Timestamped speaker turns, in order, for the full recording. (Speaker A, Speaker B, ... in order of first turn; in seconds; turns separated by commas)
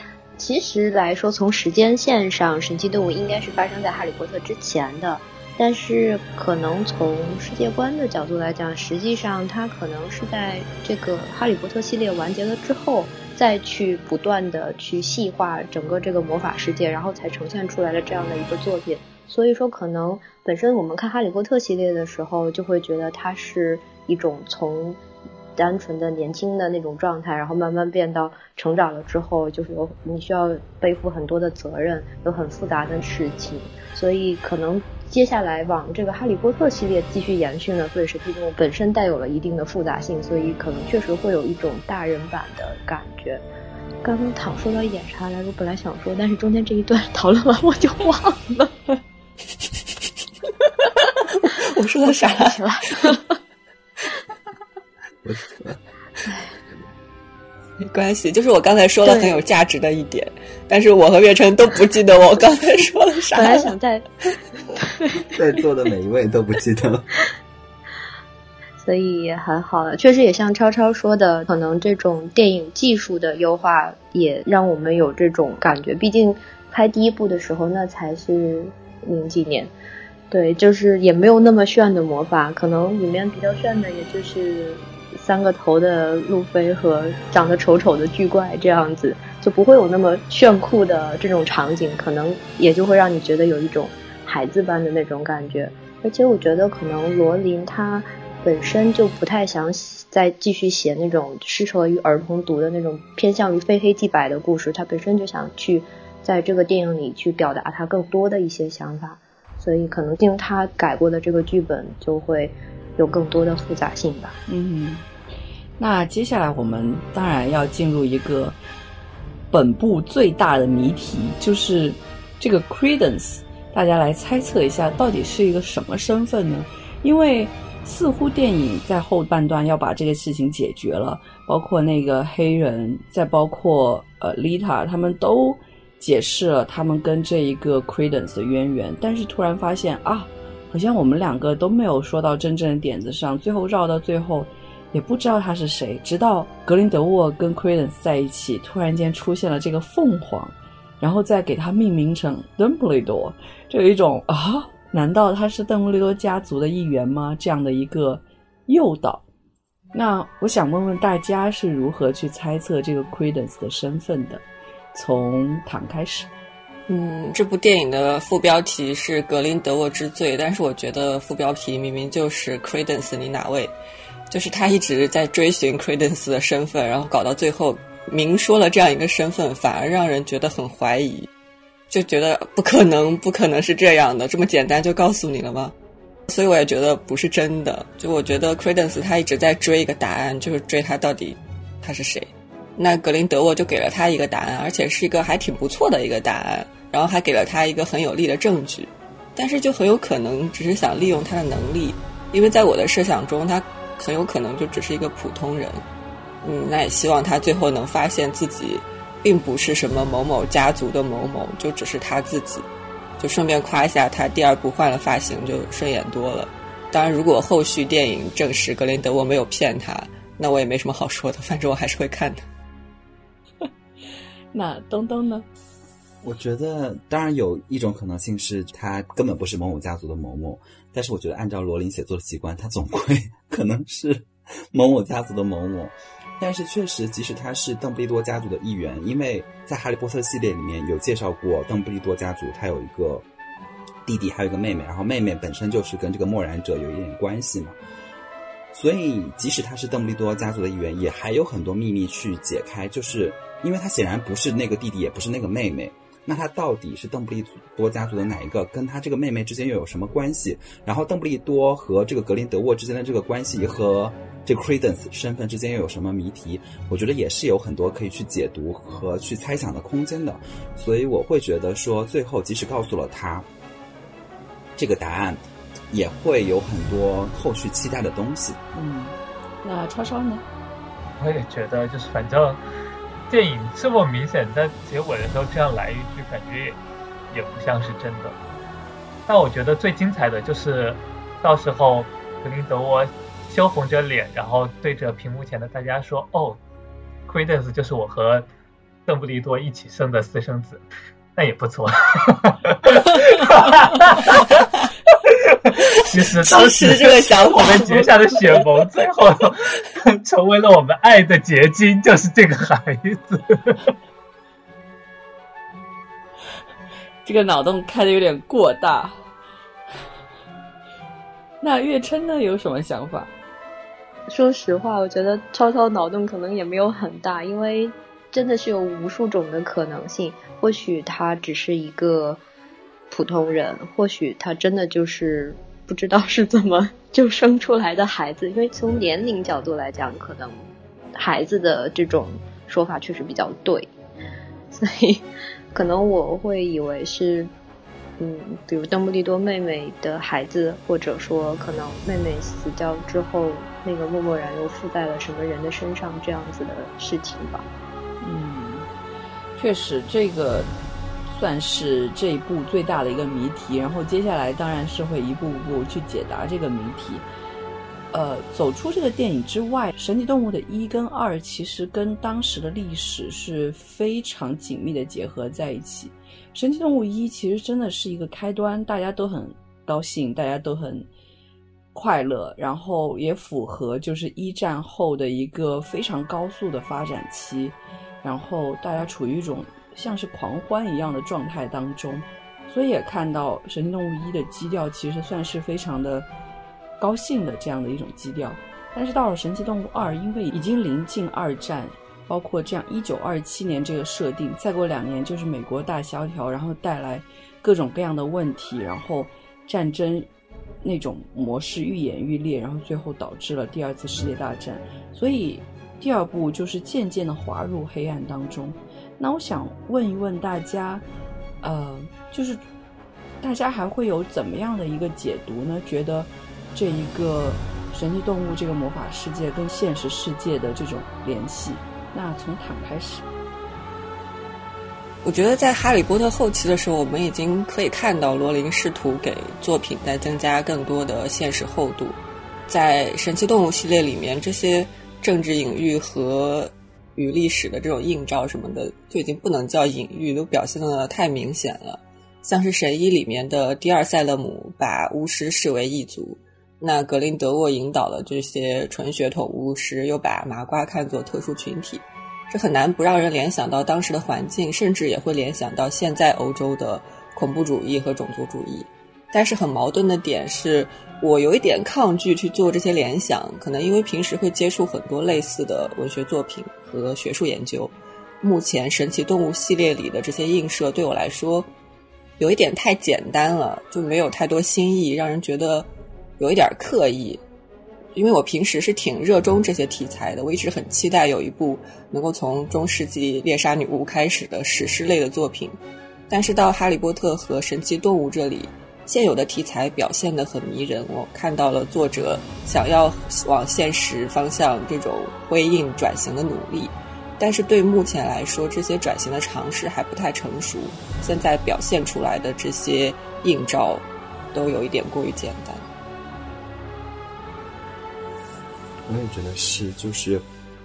Speaker A: 0.4-25.0, Speaker A: 25.6-43.4, Speaker A: 44.0-48.8, Speaker B: 50.8-53.2, Speaker A: 52.0-53.3, Speaker C: 55.2-55.8, Speaker B: 57.8-63.7, Speaker A: 59.0-59.4, Speaker A: 63.3-64.1, Speaker A: 64.7-65.2, Speaker C: 65.2-67.1, Speaker A: 68.8-79.7, Speaker A: 80.3-114.4, Speaker D: 114.5-115.1, Speaker D: 115.8-118.6, Speaker D: 119.5-159.2, Speaker D: 159.9-166.3, Speaker B: 166.9-173.7, Speaker B: 174.3-181.3, Speaker B: 181.9-185.7, Speaker B: 186.3-205.8, Speaker B: 206.4-212.7, Speaker B: 213.2-222.5, Speaker D: 224.5-225.5, Speaker C: 226.2-243.3, Speaker C: 244.1-247.8, Speaker C: 248.7-273.5, Speaker C: 274.8-278.6, Speaker D: 278.7-280.4, Speaker E: 281.2-282.6, Speaker E: 283.3-286.8, Speaker E: 287.3-288.4, Speaker E: 289.3-296.6, Speaker E: 297.3-298.5, Speaker E: 299.1-300.8, Speaker E: 301.4-304.7, Speaker E: 305.3-313.9, Speaker B: 306.1-308.7, Speaker D: 317.2-319.2, Speaker D: 321.6-323.3, Speaker A: 324.3-332.4, Speaker A: 333.1-340.6, Speaker A: 341.1-343.9, Speaker A: 344.7-347.5, Speaker A: 348.2-357.7, Speaker D: 358.2-358.9, Speaker D: 359.6-360.7, Speaker D: 361.3-367.3, Speaker D: 368.1-381.1, Speaker D: 381.9-396.3, Speaker D: 397.0-410.3, Speaker D: 410.8-421.1, Speaker D: 421.6-422.6, Speaker D: 423.4-433.2, Speaker B: 435.2-481.7, Speaker B: 482.4-487.4, Speaker B: 488.1-495.8, Speaker B: 496.3-515.9, Speaker C: 519.1-520.4